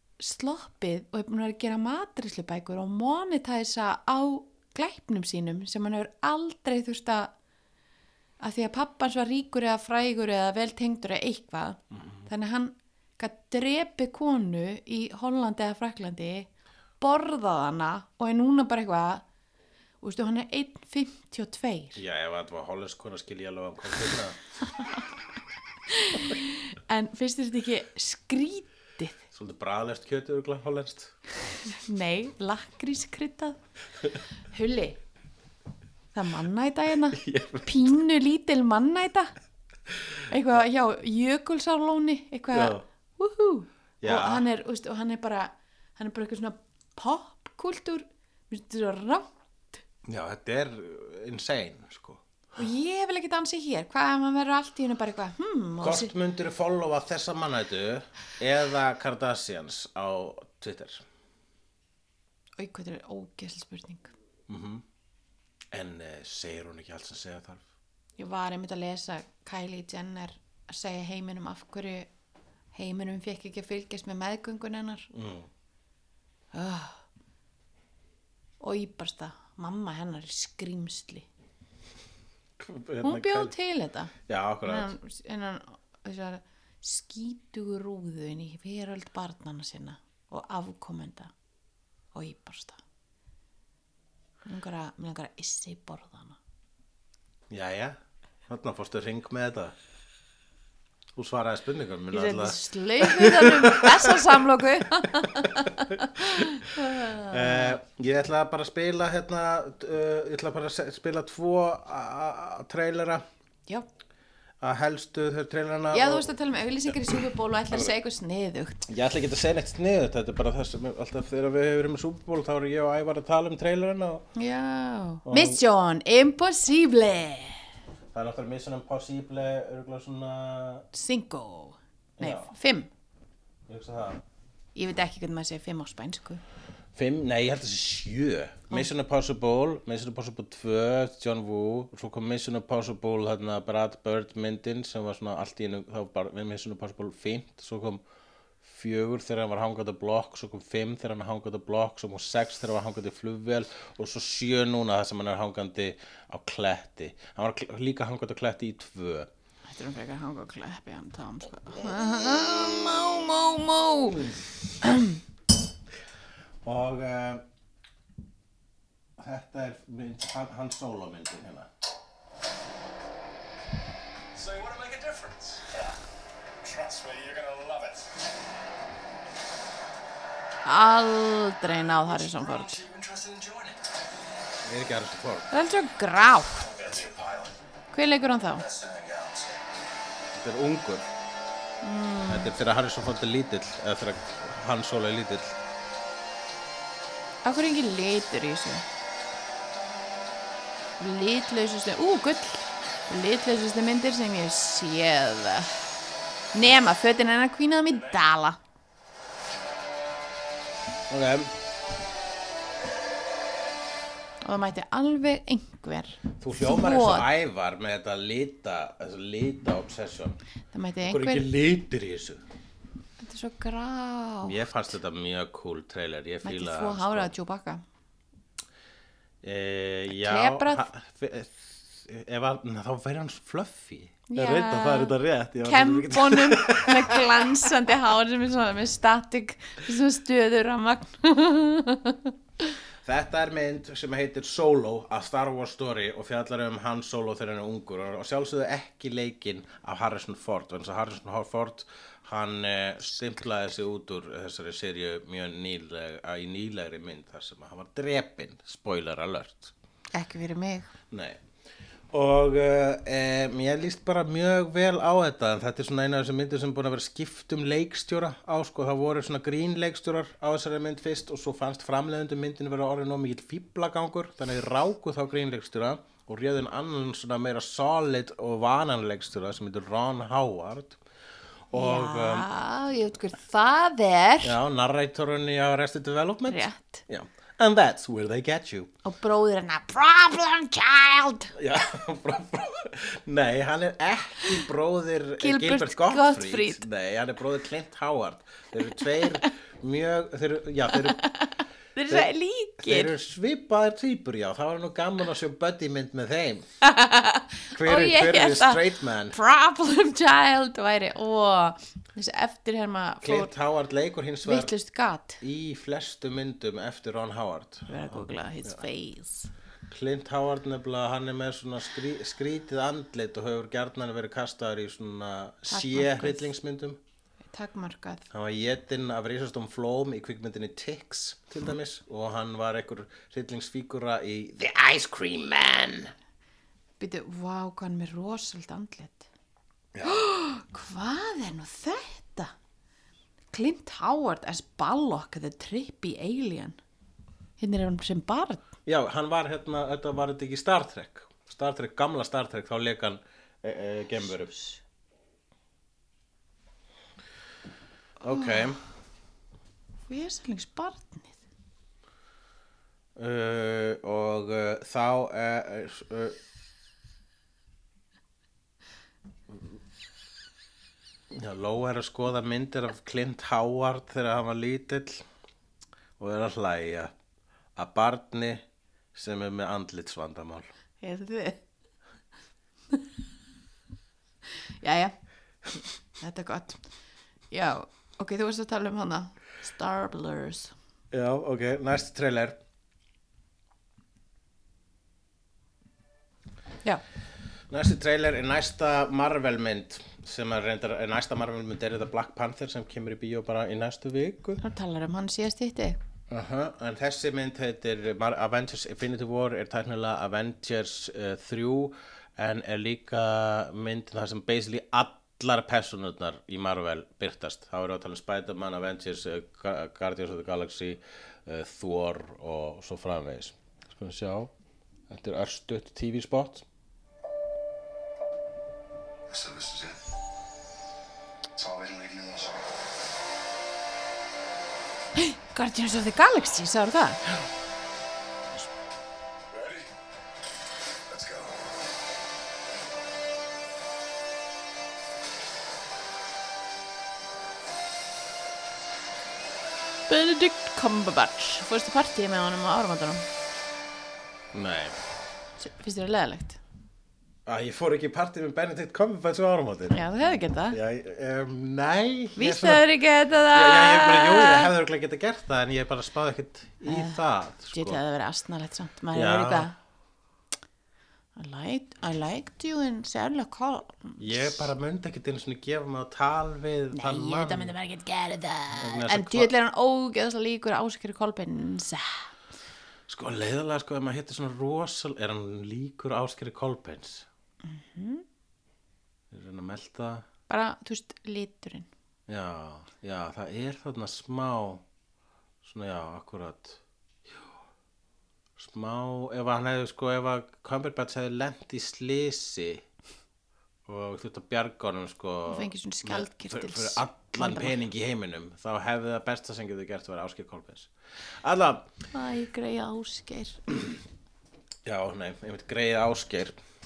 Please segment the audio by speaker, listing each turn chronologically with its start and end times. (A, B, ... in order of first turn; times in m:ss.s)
0:00.2-0:07.3 A
0:08.4-0:16.5 A
0:11.9-0:12.3 B
0:17.0-0:19.2 A
0:20.0-0:22.0 A
0:21.9-0:24.4 B
0:25.9-0:29.2 A
0:29.3-0:31.2 B
0:31.7-0:33.6 A
0:34.5-0:35.0 A
0:36.1-0:39.3 A
0:37.2-0:37.9 B
0:40.3-0:49.2 A
0:42.5-0:42.8 B
0:44.0-0:44.4 B
0:50.0-0:52.6 B
0:52.6-0:56.1 A
0:55.8-1:01.0 B
1:02.6-1:04.1 A
1:04.5-1:04.8 B
1:05.7-1:07.6 B
1:08.2-1:12.1 A
1:12.7-1:15.1 A
1:15.1-1:15.5 B
1:16.5-1:17.0 A
1:18.6-1:21.3 A
1:22.6-1:23.5 B
1:23.0-1:24.1 A
1:24.3-1:24.9 B
1:24.6-1:31.3 A
1:32.1-1:32.8 A
1:34.4-1:36.4 A
1:37.5-1:38.0 B
1:38.5-1:39.8 B
1:41.2-1:44.3 B
1:42.1-1:47.8 A
1:47.3-1:53.2 B
1:54.6-1:56.3 B
1:55.9-1:58.8 A
1:56.9-1:57.2 B
1:58.8-2:04.3 B
2:04.3-2:07.6 A
2:05.2-2:05.6 B
2:08.1-2:10.8 B
2:10.9-2:12.9 A
2:12.2-2:12.5 B
2:13.7-2:14.2 B
2:14.7-2:16.4 A
2:16.9-2:28.0 B
2:28.6-2:39.3 B
2:39.7-2:44.3 A
2:44.8-2:45.2 A
2:46.6-2:47.4 B
2:49.2-2:51.7 B
2:54.4-2:55.9 C
2:56.6-2:58.0 C
3:00.6-3:02.8 A
3:02.6-3:03.9 C
3:04.6-3:05.5 B
3:05.5-3:06.7 A
3:06.7-3:07.5 C
3:07.9-3:08.7 A
3:08.7-3:09.6 C
3:10.4-3:11.1 B
3:11.8-3:12.5 A
3:12.3-3:15.6 B
3:17.4-3:18.8 A
3:21.0-3:25.8 A
3:26.5-3:28.6 A
3:31.1-3:31.5 B
3:34.4-3:37.3 A
3:36.4-3:40.4 B
3:40.7-3:41.4 A
3:41.0-3:42.4 B
3:43.2-3:44.6 A
3:44.4-3:47.3 B
3:46.4-3:47.8 A
3:49.4-3:57.6 B
3:50.1-3:50.9 A
3:54.3-4:02.3 A
4:03.0-4:19.7 B
4:20.1-4:20.9 A
4:21.1-4:21.4 B
4:22.1-4:41.0 B
4:41.7-4:42.5 B
4:41.7-4:44.6 A
4:44.4-4:48.9 B
4:46.5-4:47.0 A
4:49.0-4:51.5 A
4:51.5-5:01.2 B
4:55.4-4:56.8 A
5:01.1-5:03.1 A
5:02.1-5:06.7 B
5:06.8-5:13.5 A
5:07.7-5:09.4 B
5:13.2-5:14.7 B
5:14.4-5:15.4 A
5:15.4-5:18.8 B
5:17.9-5:19.5 A
5:19.9-5:27.0 B
5:25.7-5:26.5 A
5:27.5-5:28.2 A
5:28.3-5:36.1 B
5:37.0-5:39.3 A
5:39.9-5:40.2 B
5:40.0-5:42.5 A
5:43.5-5:46.8 A
5:47.6-5:48.7 A
5:48.8-5:54.5 B
5:54.5-5:54.8 A
5:58.2-5:58.8 B
5:58.3-5:58.7 A
6:00.1-6:01.4 A
6:03.2-6:06.4 B
6:11.3-6:15.3 B
6:16.2-6:17.1 B
6:17.8-6:18.6 B
6:19.1-6:20.7 B
6:21.0-6:21.6 A
6:24.8-6:25.2 A
6:26.2-6:26.9 A
6:27.5-6:30.8 A
6:31.1-6:32.6 B
6:37.7-6:44.6 B
6:44.6-6:46.0 A
6:46.3-7:04.5 B
7:05.1-7:06.6 B
7:09.3-7:10.0 C
7:11.6-7:12.6 C
7:15.2-7:17.2 A
7:19.5-7:19.8 C
7:21.1-7:21.6 C
7:30.1-7:33.3 A
7:34.5-7:35.0 B
7:35.6-7:36.6 A
7:37.4-7:40.1 B
7:39.9-7:40.8 A
7:40.7-7:42.8 B
7:42.4-7:44.7 A
7:43.5-7:48.0 B
7:46.8-7:49.8 A
7:49.1-7:49.7 B
7:51.4-7:54.7 A
7:54.2-7:57.7 B
7:56.9-8:02.3 A
7:58.8-7:59.5 B
8:03.1-8:07.2 B
8:07.6-8:08.2 A
8:09.3-8:10.2 B
8:10.5-8:11.9 A
8:12.3-8:14.8 B
8:15.6-8:16.8 B
8:18.6-8:22.8 B
8:23.8-8:31.9 B
8:25.5-8:27.8 A
8:32.1-8:33.6 A
8:34.8-8:36.6 B